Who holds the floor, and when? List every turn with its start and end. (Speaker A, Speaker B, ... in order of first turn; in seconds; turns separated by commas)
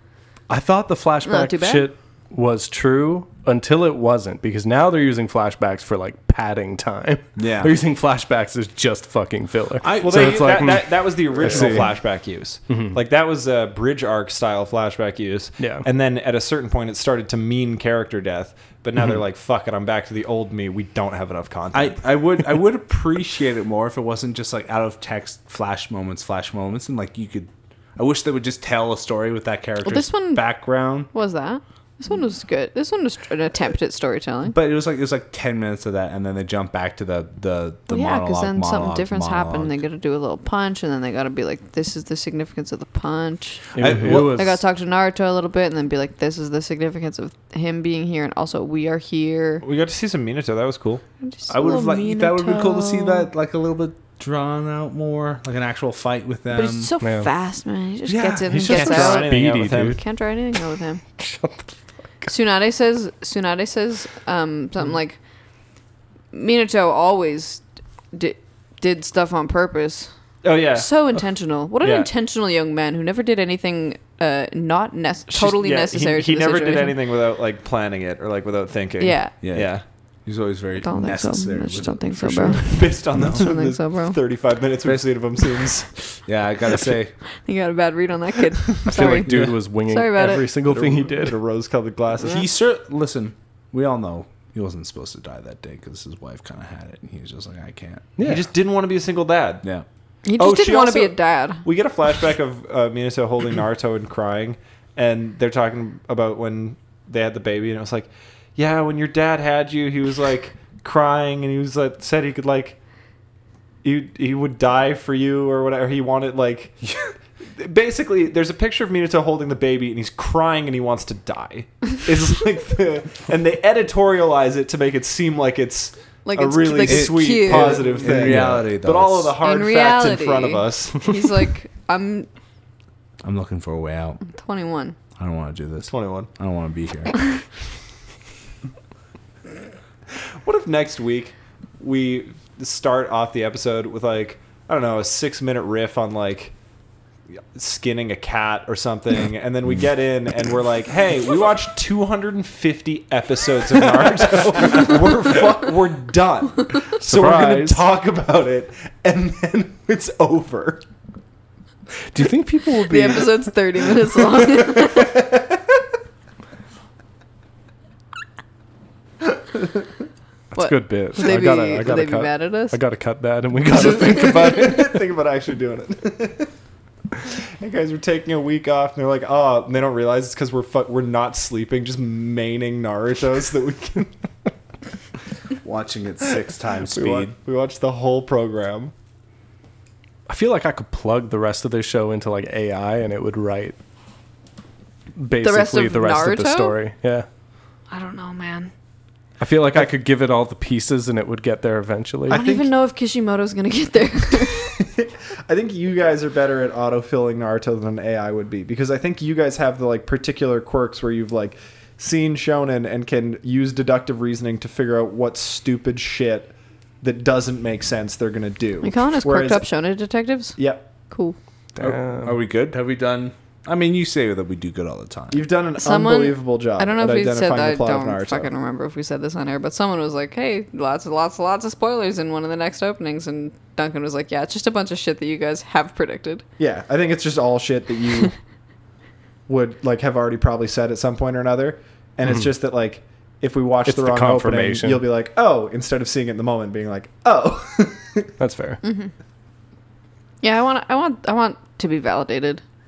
Speaker A: 0.5-11.9, Speaker B: 1.2-1.9, Speaker C: 7.4-7.7, Speaker C: 9.8-10.7, Speaker D: 10.0-22.0, Speaker C: 11.4-11.8, Speaker A: 15.6-15.8, Speaker C: 21.7-31.1, Speaker B: 29.8-30.6, Speaker B: 31.1-34.6, Speaker C: 34.5-39.8, Speaker B: 37.9-49.6, Speaker C: 43.8-44.5, Speaker A: 43.8-44.6, Speaker D: 49.6-51.0, Speaker B: 51.2-53.3, Speaker C: 51.5-56.9, Speaker B: 56.5-59.4, Speaker A: 57.0-57.3, Speaker C: 58.1-58.6, Speaker A: 58.5-60.0, Speaker D: 58.6-60.0, Speaker B: 60.0-61.0, Speaker A: 61.2-61.7, Speaker B: 62.3-65.2, Speaker B: 66.3-70.1, Speaker D: 70.4-70.9, Speaker B: 70.8-77.0, Speaker D: 71.8-72.1, Speaker D: 75.3-79.8, Speaker B: 79.0-79.3, Speaker C: 79.4-79.7, Speaker C: 80.3-83.4, Speaker B: 80.8-84.2, Speaker D: 82.5-85.9, Speaker C: 86.3-87.2, Speaker B: 87.5-90.5, Speaker A: 88.8-91.4, Speaker C: 89.2-89.6, Speaker D: 90.2-92.5, Speaker C: 92.2-98.1, Speaker A: 98.2-98.5, Speaker D: 98.2-99.6, Speaker B: 100.2-101.7, Speaker D: 100.4-112.8, Speaker D: 113.8-116.8, Speaker D: 117.6-131.1, Speaker B: 126.2-128.2, Speaker C: 126.8-129.4, Speaker B: 129.4-132.3, Speaker C: 133.2-134.2, Speaker B: 134.3-135.0, Speaker C: 135.2-137.1, Speaker D: 135.9-136.3, Speaker D: 140.4-146.5, Speaker D: 147.3-160.8, Speaker A: 157.0-157.8, Speaker A: 162.1-163.4, Speaker B: 162.8-165.2, Speaker D: 165.0-165.4, Speaker A: 170.5-175.0, Speaker B: 170.6-172.8, Speaker D: 173.8-176.5, Speaker D: 177.2-184.1, Speaker C: 185.6-187.3, Speaker D: 186.9-188.9, Speaker A: 190.3-193.8, Speaker A: 195.2-197.3, Speaker B: 195.4-196.8, Speaker B: 197.9-198.7, Speaker A: 199.4-202.4, Speaker D: 202.3-202.7, Speaker B: 202.3-204.8, Speaker D: 204.8-219.7, Speaker B: 218.8-221.4, Speaker D: 220.6-220.8, Speaker A: 221.8-222.3, Speaker C: 221.8-225.4, Speaker D: 225.3-228.5, Speaker B: 225.8-236.4, Speaker D: 236.6-238.3, Speaker D: 239.5-248.3, Speaker A: 243.9-245.1, Speaker A: 248.4-248.8, Speaker B: 248.8-249.1, Speaker B: 250.4-252.6